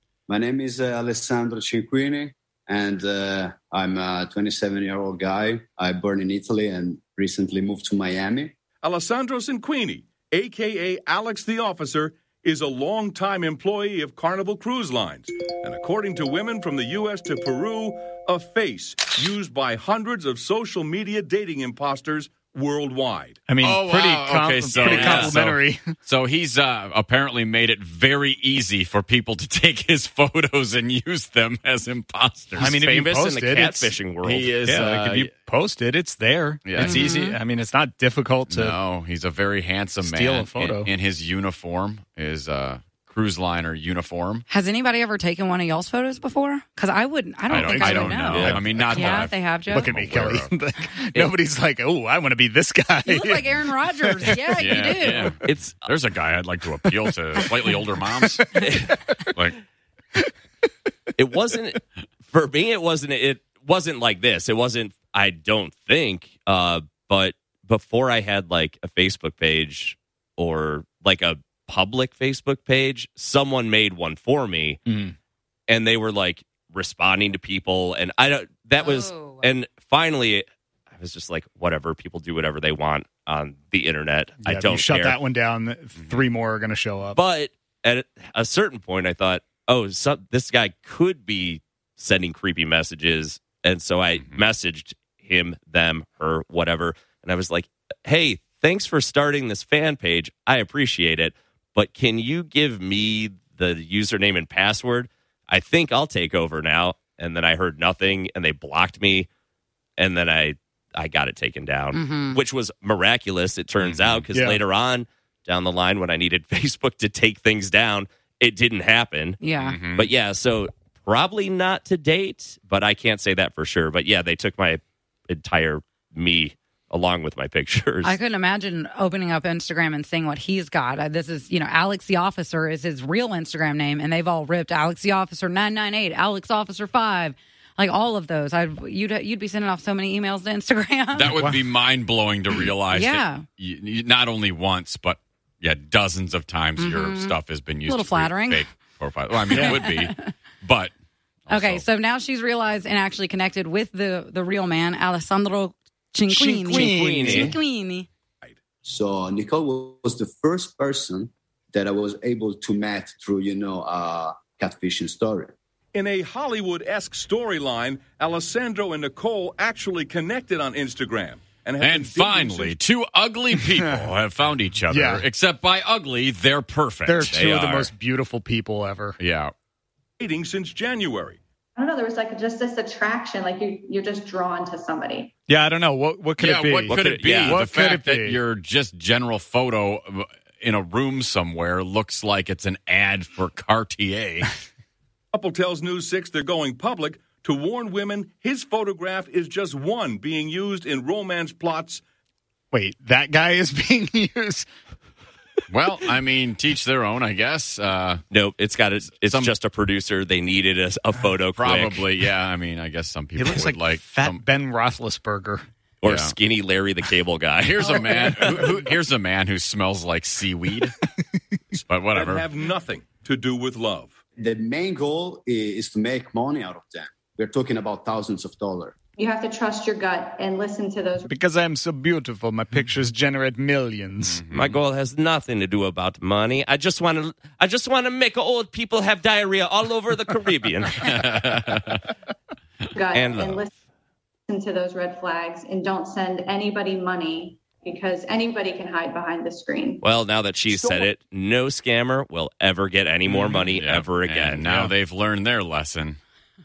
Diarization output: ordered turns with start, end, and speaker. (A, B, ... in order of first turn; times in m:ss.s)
0:00.3-0:08.5 A
0:08.8-0:23.5 B
0:23.5-0:25.9 C
0:23.6-0:32.8 D
0:24.8-0:25.4 E
0:32.6-0:34.7 E
0:32.6-0:33.8 C
0:34.2-0:35.3 D
0:34.8-0:38.7 C
0:36.6-0:37.1 D
0:36.8-0:37.4 F
0:38.5-0:44.4 D
0:40.0-0:40.9 C
0:44.5-0:49.9 F
0:47.5-0:50.5 D
0:47.6-0:49.2 E
0:49.7-0:54.6 C
0:53.0-0:55.4 F
0:54.6-0:58.4 D
0:55.4-0:55.8 E
0:58.6-0:59.0 E
1:01.2-1:14.8 E
1:15.7-1:20.4 E
1:18.8-1:19.5 F
1:21.0-1:25.2 E
1:24.4-1:27.2 C
1:26.0-1:26.3 D
1:27.1-1:49.3 E
1:34.2-1:34.4 D
1:50.0-1:59.4 E
1:51.9-1:52.4 F
1:53.8-1:54.3 D
1:59.4-1:59.8 F
1:59.6-2:00.1 D
1:59.9-2:08.2 E
2:08.0-2:21.4 F
2:21.1-2:30.9 D
2:22.9-2:23.4 F
2:26.8-2:28.7 F
2:29.5-2:30.3 F
2:31.5-2:31.8 D
2:31.5-2:38.1 F
2:36.4-2:37.5 E
2:36.4-2:37.4 C
2:38.8-2:45.5 A
2:45.9-2:52.8 B
2:51.8-2:57.7 D
2:54.9-2:55.2 C
2:57.1-2:59.2 C
2:57.2-2:57.9 E
2:59.2-2:59.5 D
3:00.2-3:01.4 B
3:01.8-3:05.3 G
3:05.5-3:06.9 C
3:06.4-3:14.6 D
3:06.9-3:07.6 E
3:07.5-3:08.4 C
3:15.3-3:22.0 B
3:22.7-3:24.6 C
3:25.7-3:28.2 D
3:28.3-3:32.2 E
3:29.0-3:29.5 D
3:31.5-3:34.4 D
3:33.4-3:35.6 C
3:36.0-3:38.6 E
3:36.0-3:36.3 D
3:37.6-3:40.9 D
3:41.7-3:44.2 B
3:41.8-3:42.4 D
3:44.4-3:48.9 A
3:49.2-3:51.3 G
3:51.3-3:54.4 C
3:54.2-3:54.8 D
3:54.5-4:01.9 E
4:01.0-4:02.0 D
4:02.9-4:03.7 G
4:03.1-4:03.6 E
4:04.5-4:10.0 G
4:10.0-4:14.9 E
4:10.7-4:11.1 B
4:13.3-4:16.2 D